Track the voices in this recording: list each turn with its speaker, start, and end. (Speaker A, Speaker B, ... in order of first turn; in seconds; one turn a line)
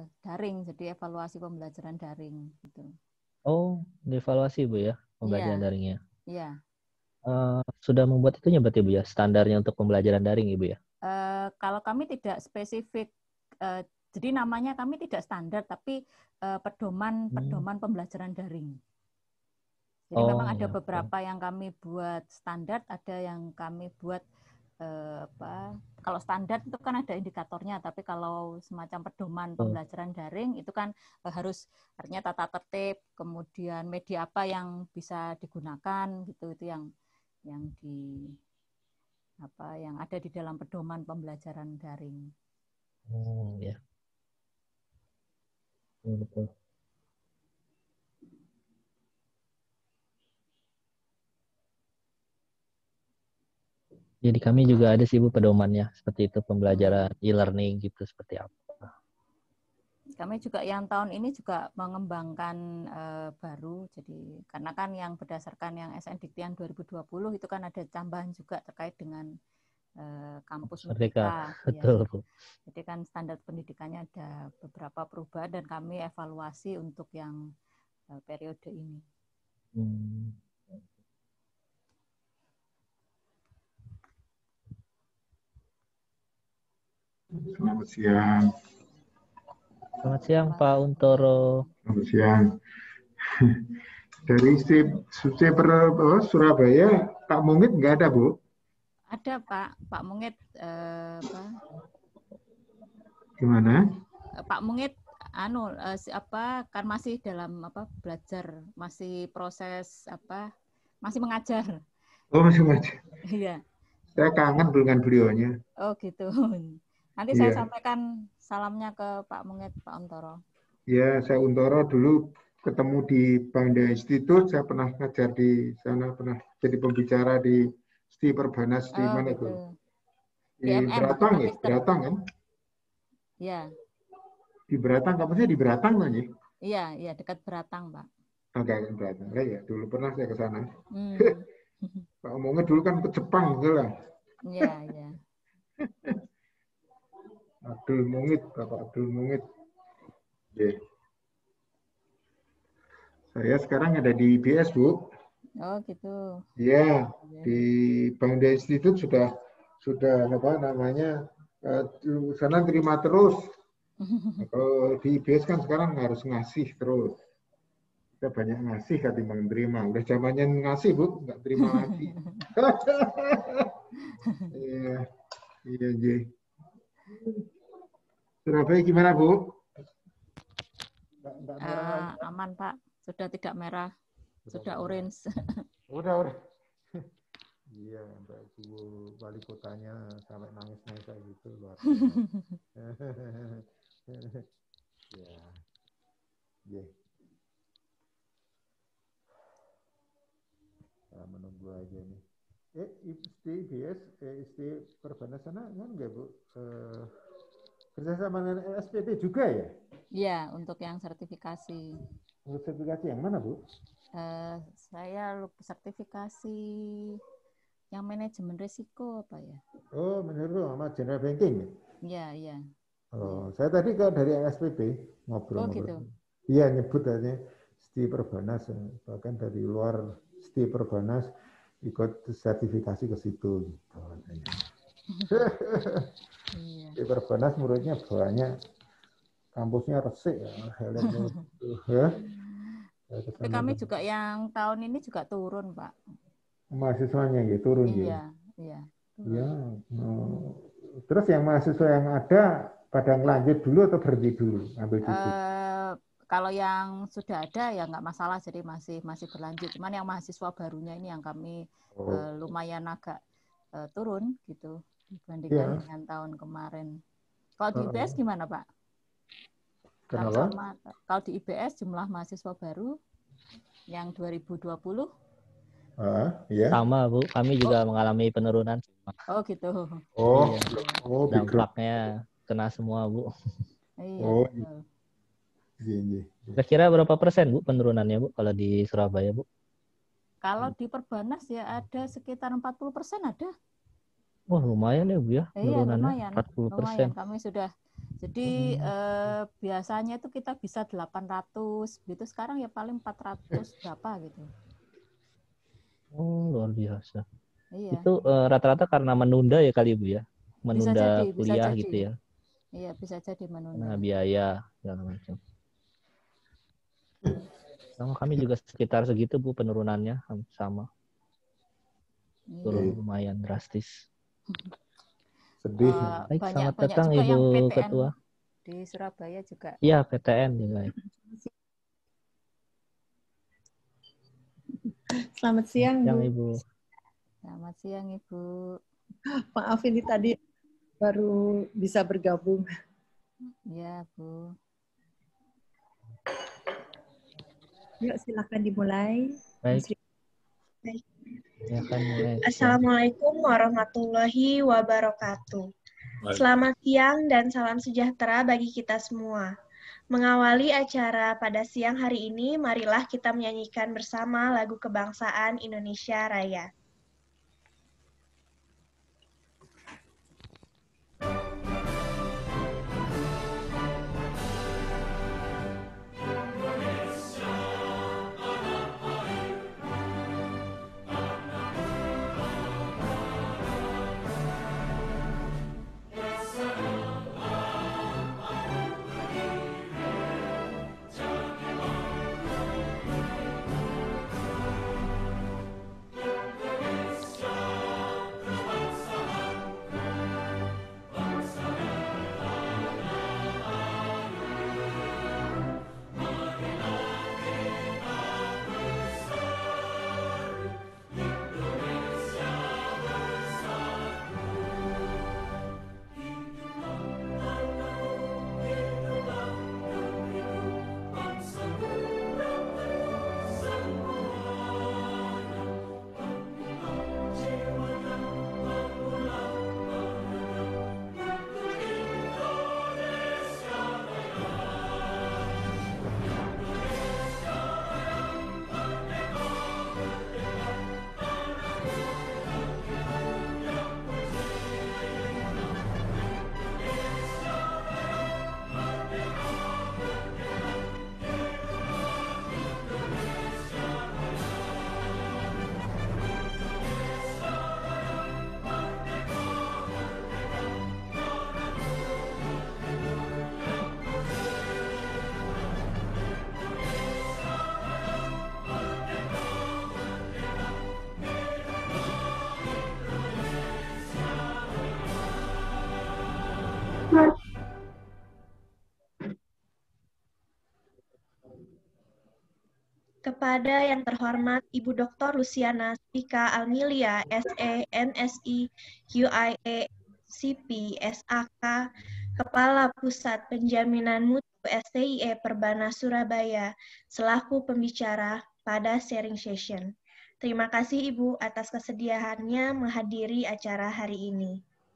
Speaker A: 0.2-2.9
Speaker B: 3.5-6.0
Speaker A: 5.3-5.7
Speaker B: 7.3-10.8
Speaker A: 11.1-13.1
Speaker A: 13.6-18.8
Speaker B: 17.3-17.6
Speaker A: 20.1-24.2
Speaker B: 20.2-21.1
Speaker A: 24.8-36.9
Speaker A: 37.5-38.4
Speaker A: 39.4-42.2
Speaker B: 43.1-43.8
Speaker B: 46.0-46.5
Speaker B: 54.2-58.9
Speaker A: 56.7-57.1
Speaker A: 60.2-69.3
Speaker A: 70.0-72.0
Speaker B: 70.7-72.2
Speaker A: 72.7-77.4
Speaker A: 78.1-79.0
Speaker B: 79.8-80.8
Speaker C: 87.4-88.5
Speaker B: 90.0-91.5
Speaker A: 90.5-91.7
Speaker C: 91.9-92.4
Speaker C: 94.3-98.4
Speaker A: 99.1-101.5
Speaker C: 103.4-103.9
Speaker A: 104.4-110.5
Speaker A: 111.0-111.8
Speaker C: 112.3-113.0
Speaker A: 113.3-113.6
Speaker C: 114.2-115.5
Speaker A: 115.8-120.4
Speaker C: 117.3-117.7
Speaker C: 120.9-129.6
Speaker A: 128.9-129.7
Speaker C: 130.6-132.2
Speaker A: 130.7-131.8
Speaker A: 133.4-133.7
Speaker C: 134.7-136.3
Speaker A: 136.7-138.1
Speaker C: 138.5-141.3
Speaker A: 140.9-142.1
Speaker C: 142.2-143.9
Speaker A: 144.4-145.2
Speaker C: 147.7-149.4
Speaker C: 150.5-150.8
Speaker C: 153.3-155.1
Speaker A: 155.6-156.4
Speaker C: 156.6-163.5
Speaker A: 157.3-157.6
Speaker A: 164.0-164.4
Speaker C: 164.4-167.2
Speaker C: 168.2-173.7
Speaker A: 171.6-172.5
Speaker C: 174.5-175.1
Speaker C: 175.7-176.3
Speaker C: 177.1-177.4
Speaker C: 178.5-179.6
Speaker C: 181.2-182.3
Speaker A: 181.6-183.9
Speaker C: 184.5-185.1
Speaker A: 184.5-185.2
Speaker C: 185.9-186.4
Speaker C: 187.7-192.2
Speaker A: 192.2-192.6
Speaker C: 192.8-194.4
Speaker C: 195.1-195.6
Speaker C: 196.7-196.9
Speaker C: 201.1-202.2
Speaker C: 202.8-207.1
Speaker C: 207.9-209.7
Speaker A: 210.2-211.9
Speaker C: 212.5-213.6
Speaker A: 214.2-217.2
Speaker A: 217.9-219.6
Speaker C: 219.9-221.8
Speaker A: 222.1-222.6
Speaker C: 223.1-234.6
Speaker A: 225.6-226.0
Speaker C: 235.3-236.1
Speaker A: 236.5-237.0
Speaker C: 237.0-238.5
Speaker C: 239.6-242.2
Speaker A: 241.1-241.4
Speaker C: 243.1-243.8
Speaker A: 243.4-246.0
Speaker C: 246.8-248.2
Speaker A: 247.9-249.5
Speaker C: 249.3-255.3
Speaker A: 255.1-263.2
Speaker C: 261.9-262.2
Speaker A: 263.8-267.0
Speaker C: 265.5-265.8
Speaker A: 267.6-268.6
Speaker C: 267.8-268.2
Speaker C: 270.1-270.5
Speaker A: 270.2-272.9
Speaker A: 273.9-275.1
Speaker C: 276.0-276.8
Speaker B: 276.7-279.2
Speaker A: 279.3-280.1
Speaker C: 280.2-281.7
Speaker B: 280.3-280.7
Speaker B: 281.3-283.3
Speaker A: 284.0-284.8
Speaker C: 284.2-284.7
Speaker C: 285.8-286.6
Speaker B: 286.6-289.4
Speaker A: 290.4-293.5
Speaker B: 294.5-297.1
Speaker A: 295.6-304.5
Speaker B: 298.5-298.9
Speaker B: 306.1-307.2
Speaker A: 307.7-308.1
Speaker B: 307.9-312.2
Speaker A: 310.7-312.0
Speaker A: 312.8-314.0
Speaker B: 313.8-315.4
Speaker B: 318.0-320.9
Speaker A: 322.5-322.9
Speaker B: 322.6-324.1
Speaker C: 322.7-323.0
Speaker C: 325.6-326.2
Speaker A: 325.8-328.1
Speaker B: 326.3-328.1
Speaker A: 328.7-329.8
Speaker B: 329.8-330.9
Speaker D: 335.4-336.2
Speaker B: 336.0-336.6
Speaker A: 337.5-338.7
Speaker D: 339.6-340.3
Speaker D: 341.0-342.7
Speaker A: 343.7-344.5
Speaker D: 348.1-349.1
Speaker B: 351.7-352.8
Speaker E: 352.4-355.7
Speaker E: 356.3-359.5
Speaker E: 360.1-366.7
Speaker E: 483.2-491.8
Speaker E: 492.4-504.6